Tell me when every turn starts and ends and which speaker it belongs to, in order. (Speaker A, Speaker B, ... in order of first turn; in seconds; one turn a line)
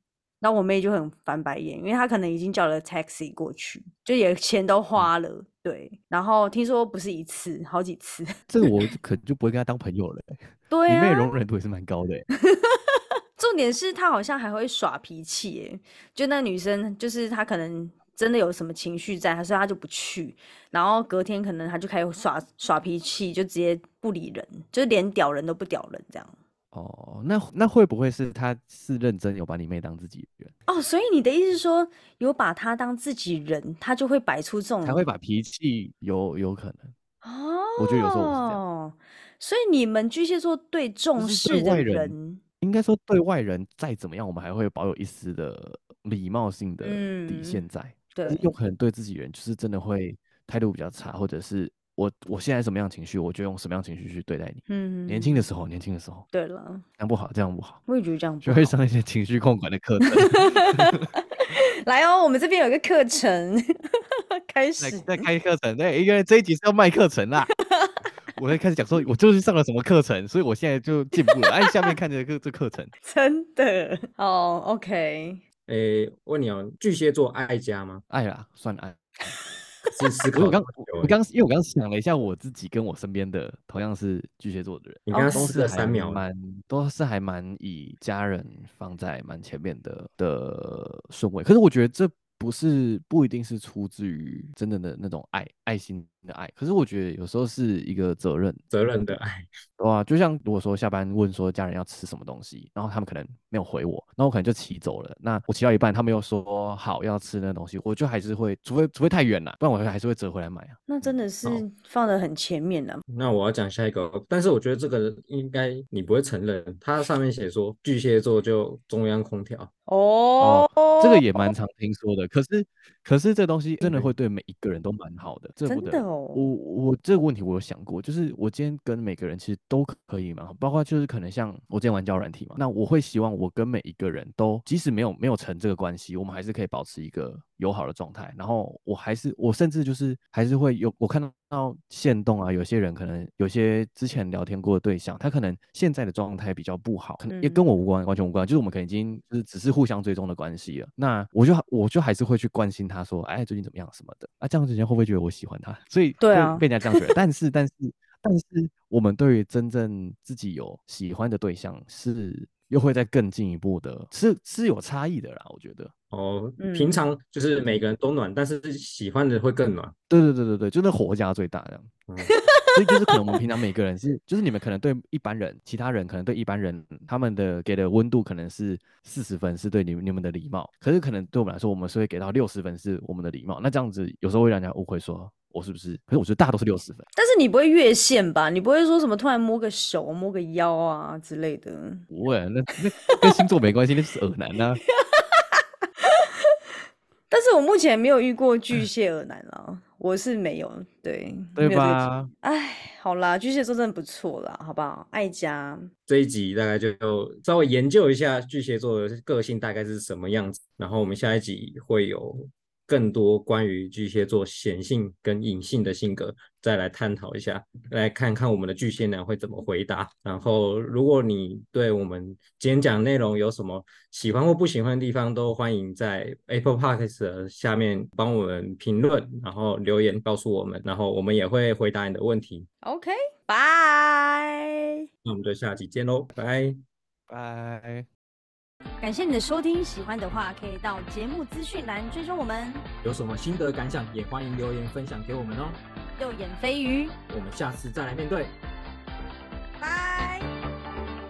Speaker A: 0.4-8.7
Speaker B: 8.5-12.2
Speaker A: 10.7-11.3
Speaker A: 12.5-26.3
Speaker B: 26.7-30.5
Speaker A: 30.7-35.0
Speaker B: 34.8-36.9
Speaker A: 37.2-42.4
Speaker B: 37.8-38.6
Speaker B: 41.2-56.2
Speaker A: 46.8-48.5
Speaker A: 54.7-55.5
Speaker A: 56.3-56.8
Speaker B: 57.0-57.8
Speaker A: 57.9-58.8
Speaker B: 58.4-61.0
Speaker A: 60.0-65.3
Speaker B: 64.8-67.5
Speaker A: 67.6-68.1
Speaker B: 68.3-72.9
Speaker A: 71.2-72.0
Speaker A: 73.0-75.4
Speaker C: 75.7-78.0
Speaker B: 78.1-79.3
Speaker C: 79.9-81.2
Speaker B: 80.3-98.6
Speaker C: 85.1-86.2
Speaker A: 85.1-85.5
Speaker C: 98.7-99.5
Speaker B: 99.8-111.6
Speaker A: 110.9-113.0
Speaker C: 113.1-119.7
Speaker A: 119.9-121.5
Speaker B: 120.4-165.9
Speaker A: 125.7-126.5
Speaker A: 147.3-147.6
Speaker A: 156.2-157.1
Speaker C: 166.1-169.9
Speaker A: 166.6-167.0
Speaker B: 170.1-171.9
Speaker A: 172.2-173.1
Speaker B: 172.7-187.1
Speaker A: 187.2-192.1
Speaker B: 192.1-194.8
Speaker A: 194.9-196.1
Speaker A: 197.3-205.9
Speaker B: 201.6-202.3
Speaker C: 206.1-232.7
Speaker A: 232.8-235.0
Speaker C: 235.2-236.8
Speaker B: 237.3-238.1
Speaker A: 239.0-242.8
Speaker C: 243.0-245.8
Speaker A: 246.2-247.1
Speaker C: 247.3-248.5
Speaker A: 249.8-250.5